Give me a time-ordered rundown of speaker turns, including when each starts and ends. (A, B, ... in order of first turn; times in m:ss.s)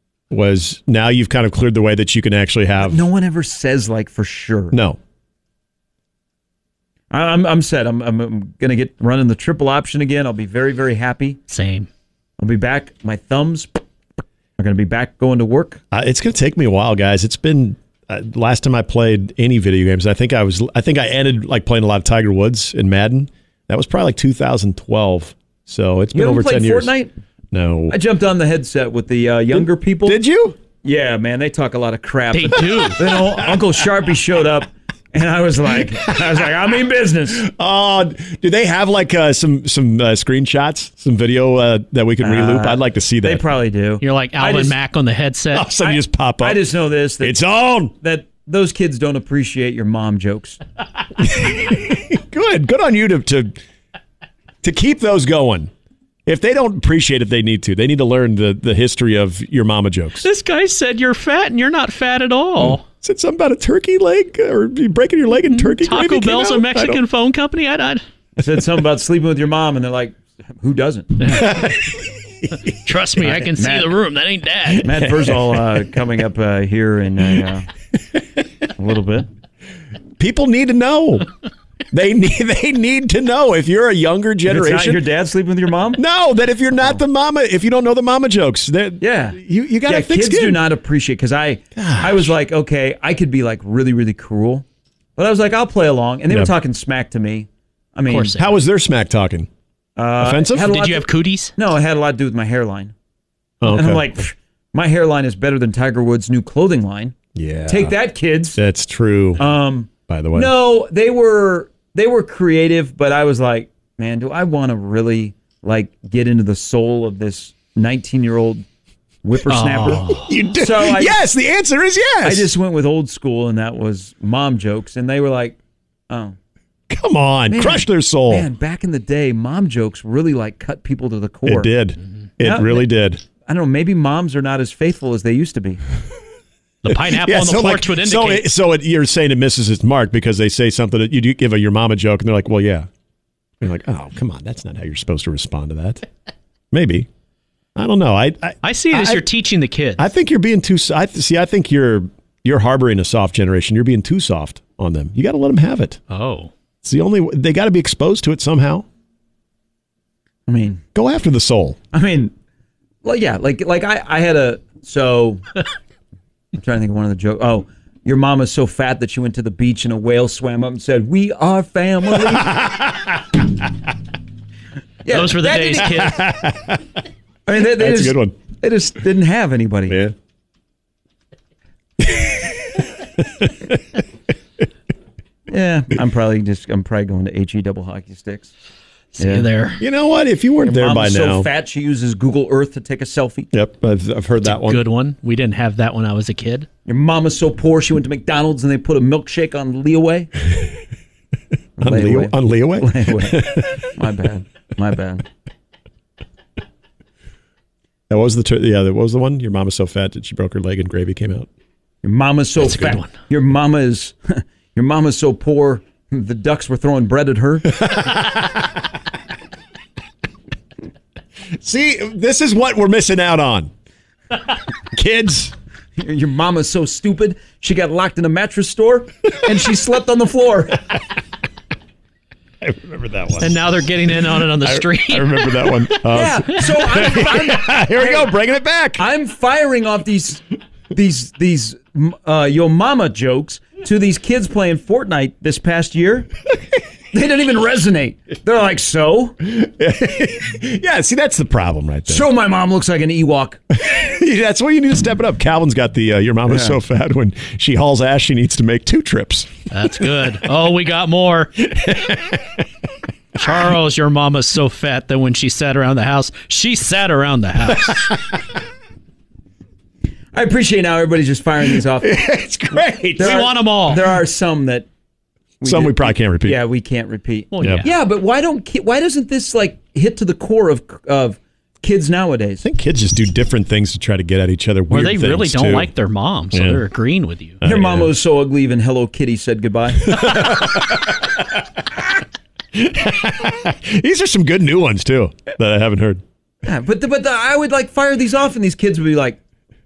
0:00.3-0:03.0 A
0:02.8-0:04.8 B
0:04.7-0:05.0 A
0:07.1-0:11.4 B
0:11.5-0:11.9 C
0:12.4-0:13.8 B
0:14.6-0:15.8 B
0:15.9-0:26.9 A
0:26.1-0:27.2 B
0:27.5-0:28.0 A
0:27.9-0:30.2 B
0:29.6-0:30.6 A
0:30.8-0:37.5 B
0:32.3-0:33.0 C
0:33.0-0:33.6 A
0:37.3-0:43.4 A
0:42.2-0:44.8 B
0:44.0-0:45.7 C
0:45.5-0:47.9 A
0:45.8-0:50.6 B
0:51.2-0:53.6 A
0:54.6-0:55.7 A
0:56.3-1:00.3 A
1:00.2-1:02.8 C
1:02.6-1:07.0 A
1:05.5-1:08.0 C
1:08.4-1:11.4 B
1:11.2-1:11.6 C
1:11.2-1:12.7 A
1:12.7-1:15.0 C
1:13.2-1:14.0 B
1:14.8-1:17.7 B
1:15.0-1:15.6 A
1:18.7-1:19.3 B
1:20.2-1:21.3 A
1:21.9-1:25.0 A
1:24.4-1:26.0 B
1:25.9-1:30.6 A
1:29.0-1:34.6 B
1:31.8-1:32.4 A
1:35.2-1:38.4 B
1:38.1-1:38.6 C
1:38.4-1:39.5 A
1:40.0-1:42.9 B
1:40.2-1:40.8 A
1:40.7-1:41.5 C
1:43.6-1:44.1 A
1:43.6-1:47.2 B
1:47.4-1:48.0 A
1:47.7-1:48.6 B
1:48.5-1:49.5 A
1:49.4-1:58.6 B
1:50.1-1:50.5 A
1:59.2-2:01.2 B
1:59.5-2:00.4 C
2:00.1-2:02.5 A
2:02.2-2:05.6 B
2:06.1-2:06.4 B
2:06.9-2:08.5 A
2:07.5-2:11.7 B
2:11.5-2:13.2 A
2:12.4-2:12.9 B
2:13.4-2:15.8 B
2:16.8-2:18.5 C
2:16.9-2:22.9 A
2:23.6-2:26.1 A
2:26.7-2:27.1 A
2:27.8-2:29.2 A
2:28.6-2:30.1 C
2:30.0-2:36.0 A
2:36.1-2:36.5 C
2:36.8-2:38.8 A
2:40.5-2:40.8 B
2:41.0-2:41.8 A
2:41.9-2:42.3 B
2:43.0-2:45.4 B
2:46.5-2:52.6 B
2:52.2-2:53.4 A
2:55.0-2:56.1 B
2:55.1-2:56.3 C
2:55.8-2:57.0 A
2:57.4-3:00.0 B
2:57.7-2:58.3 A
2:59.9-3:00.2 A
3:02.0-3:03.8 A
3:05.5-3:08.5 B
3:09.2-3:09.8 C
3:09.2-3:09.5 B
3:09.8-3:11.5 A
3:10.6-3:13.5 B
3:13.5-3:14.8 A
3:14.4-3:16.7 C
3:16.9-3:20.3 B
3:21.8-3:25.3 B
3:21.8-3:23.9 A
3:28.1-3:31.5 A
3:32.0-3:37.7 B
3:32.6-3:33.1 C
3:37.6-3:38.8 A
3:41.6-3:43.7 A
3:44.9-3:45.6 A
3:46.0-3:50.9 B
3:52.6-3:53.6 A
3:53.4-3:56.0 C
3:54.2-3:59.0 A
3:56.1-3:58.3 B
3:59.0-4:06.3 B
4:07.1-4:09.4 B
4:09.4-4:12.3 A
4:12.1-4:13.6 B
4:13.7-4:19.5 A
4:16.5-4:16.8 B
4:19.7-4:21.5 C
4:21.6-4:22.6 A
4:23.4-4:28.1 C
4:27.7-4:28.5 A
4:30.3-4:32.1 B
4:31.7-4:33.4 A
4:33.1-4:34.9 B
4:33.2-4:34.1 C
4:35.6-4:42.6 B
4:35.6-4:36.6 A
4:37.5-4:37.9 C
4:37.6-4:37.9 A
4:42.6-4:45.9 A
4:44.9-4:47.6 C
4:46.5-4:46.8 A
4:47.6-4:48.2 A
4:47.6-4:50.8 B
4:50.0-4:51.8 A
4:52.7-4:56.2 A
4:56.6-4:59.4 B